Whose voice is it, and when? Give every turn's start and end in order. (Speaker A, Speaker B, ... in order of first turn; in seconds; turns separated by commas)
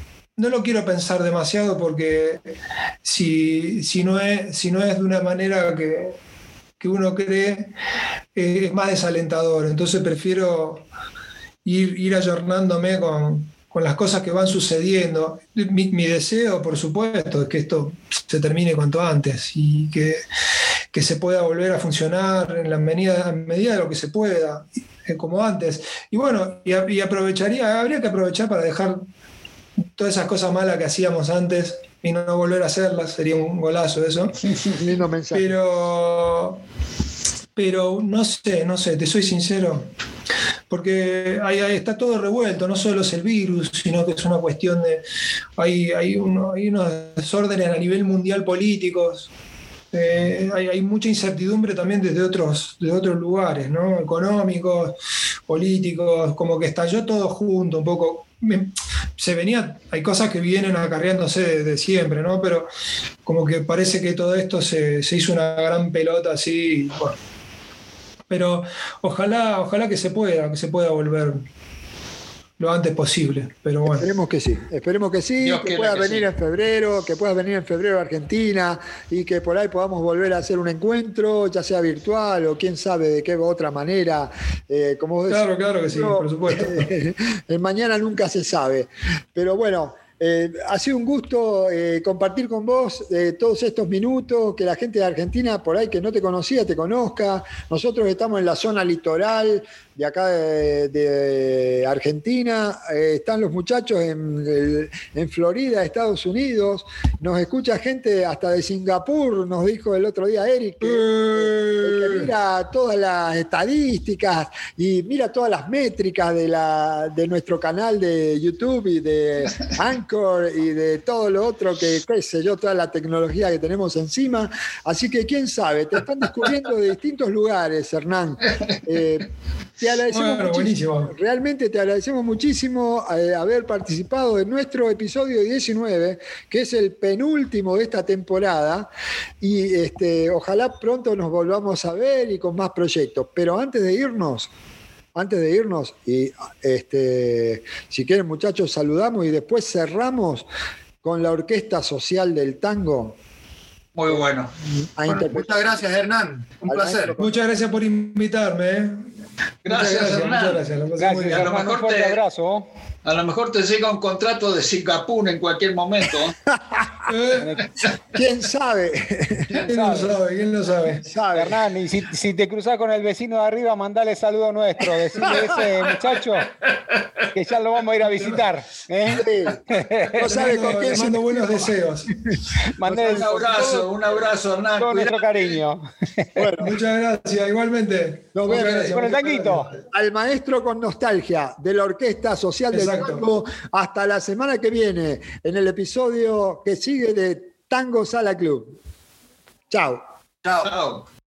Speaker A: 0.3-2.5, Speaker A: 3.0-6.2, Speaker A: 6.8-7.7, Speaker A: 8.3-10.9, Speaker A: 11.6-20.2, Speaker A: 20.9-29.0, Speaker A: 29.9-34.4, Speaker B: 34.6-35.5, Speaker A: 35.3-36.6, Speaker A: 37.5-39.9, Speaker A: 40.7-45.0, Speaker A: 45.6-49.3, Speaker A: 49.9-55.0, Speaker A: 55.5-62.7, Speaker A: 63.2-67.2, Speaker A: 68.3-71.4, Speaker A: 72.6-74.1, Speaker B: 73.8-138.9, Speaker C: 75.4-76.3, Speaker A: 85.3-86.9, Speaker A: 110.8-112.3, Speaker A: 130.1-131.1, Speaker B: 139.4-144.5, Speaker B: 145.1-150.5, Speaker B: 151.0-153.2, Speaker C: 153.9-154.5, Speaker B: 154.9-155.8, Speaker D: 155.1-157.2, Speaker B: 156.6-157.4, Speaker A: 157.2-159.0, Speaker C: 159.6-160.6, Speaker A: 159.6-161.5, Speaker E: 161.0-162.7, Speaker C: 161.2-162.2, Speaker C: 163.0-166.4, Speaker A: 167.0-167.5, Speaker E: 167.4-167.7, Speaker B: 168.1-169.7, Speaker E: 169.5-170.2, Speaker A: 169.6-171.1, Speaker B: 171.0-171.6, Speaker E: 171.3-176.5, Speaker E: 177.3-180.2, Speaker B: 179.1-183.3, Speaker A: 180.2-182.1, Speaker E: 182.7-183.9, Speaker C: 183.0-185.6, Speaker E: 184.8-186.5, Speaker B: 186.3-186.8, Speaker A: 186.6-189.7, Speaker B: 188.3-198.8, Speaker E: 188.9-189.7, Speaker A: 192.7-193.2, Speaker B: 199.7-200.0, Speaker D: 200.4-200.7, Speaker C: 200.6-201.0